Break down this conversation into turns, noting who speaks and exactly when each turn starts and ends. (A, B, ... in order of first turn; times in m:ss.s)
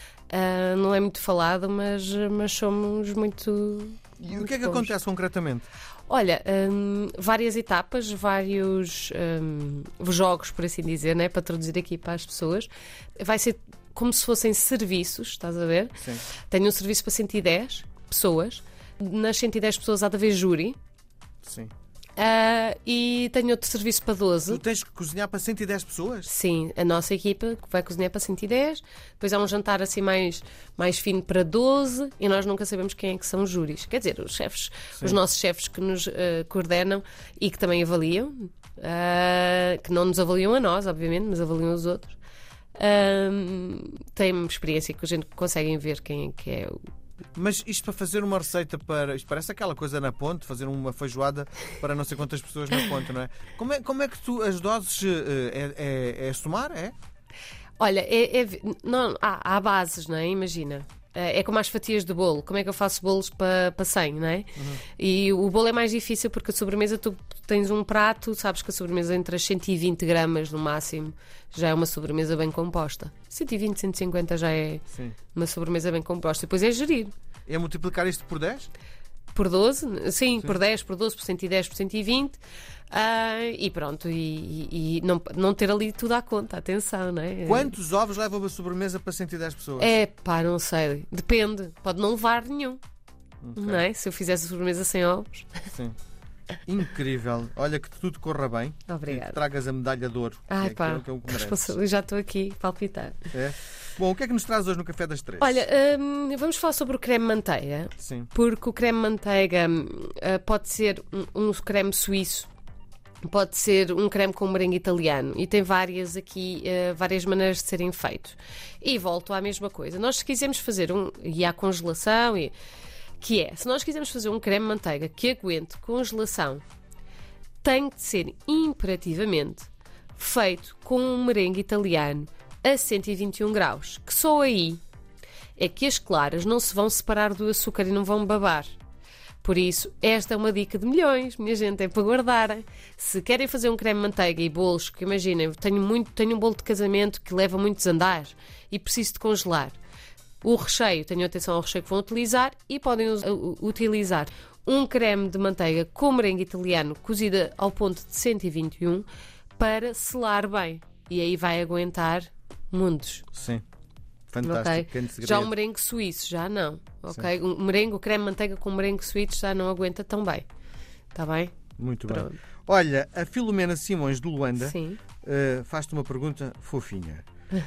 0:00.3-0:04.9 A
0:04.2-0:05.7 B
0:06.1-0:20.8 A
0:21.4-0:21.7 B
0:22.2-0:24.6 A
0:24.5-0:26.3 B
0:26.3-0:42.2 A
0:42.8-0:46.8 A
0:47.3-0:56.9 B
0:57.8-1:17.1 A
1:04.6-1:04.8 B
1:17.5-1:18.7 B
1:19.3-1:22.4 A
1:22.9-1:27.7 A
1:27.4-1:29.9 B
1:29.8-1:32.8 A
1:33.4-1:33.8 B
1:33.6-1:35.6 A
1:36.6-1:41.8 B
1:38.9-1:39.4 A
1:40.5-1:43.3 A
1:43.3-1:45.6 B
1:45.4-1:52.5 A
1:48.0-1:48.3 B
1:53.2-2:02.5 A
2:03.2-2:06.6 A
2:07.6-2:14.8 A
2:15.6-2:18.7 A
2:19.4-2:29.8 A
2:30.4-2:43.2 A
2:43.3-2:43.6 B
2:44.3-2:45.5 B
2:44.4-2:50.4 A
2:51.1-2:52.4 A
2:51.8-2:57.2 B
2:54.6-2:55.0 A